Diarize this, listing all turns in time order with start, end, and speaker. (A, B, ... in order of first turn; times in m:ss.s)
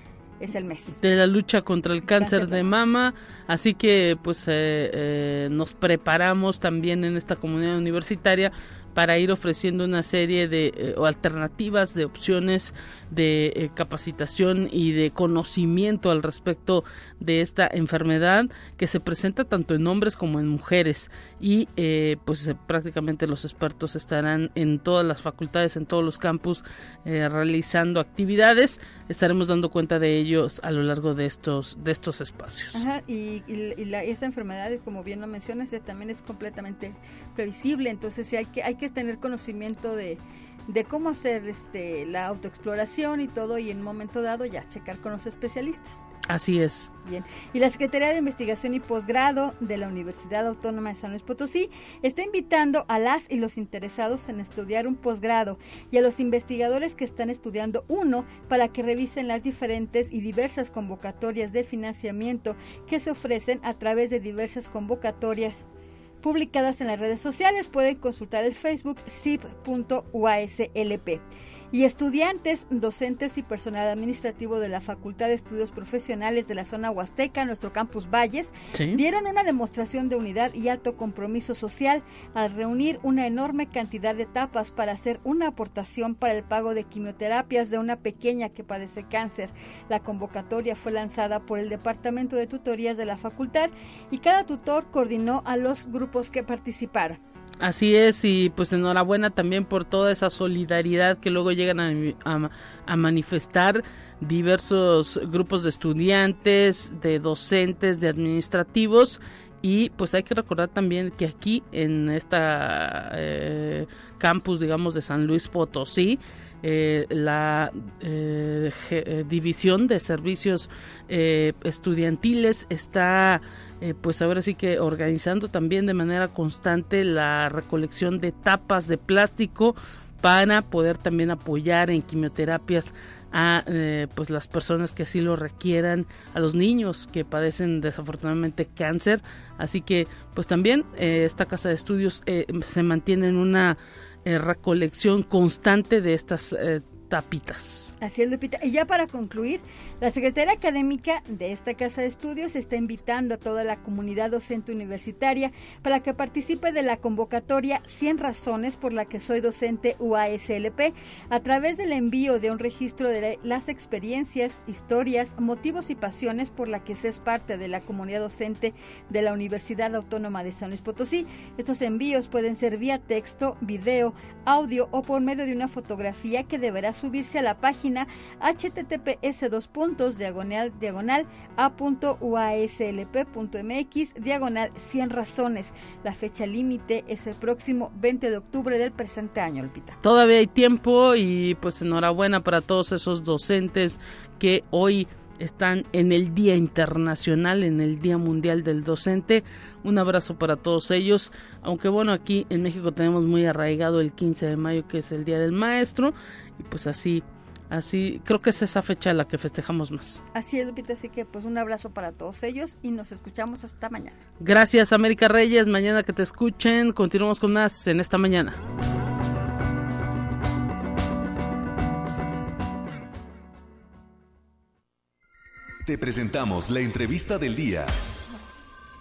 0:00.4-0:01.0 A
0:01.0-0:32.8 B
0:02.0-0:02.7 A
0:32.7-0:46.0 A
0:46.3-0:46.9 B
0:47.0-1:05.7 A
1:06.2-1:37.2 A
1:18.7-1:19.0 B
1:37.6-2:27.9 B
2:28.0-3:10.0 A
3:10.0-3:30.2 B
3:30.3-3:34.2 A
3:34.4-3:38.6 B
3:45.8-3:47.9 C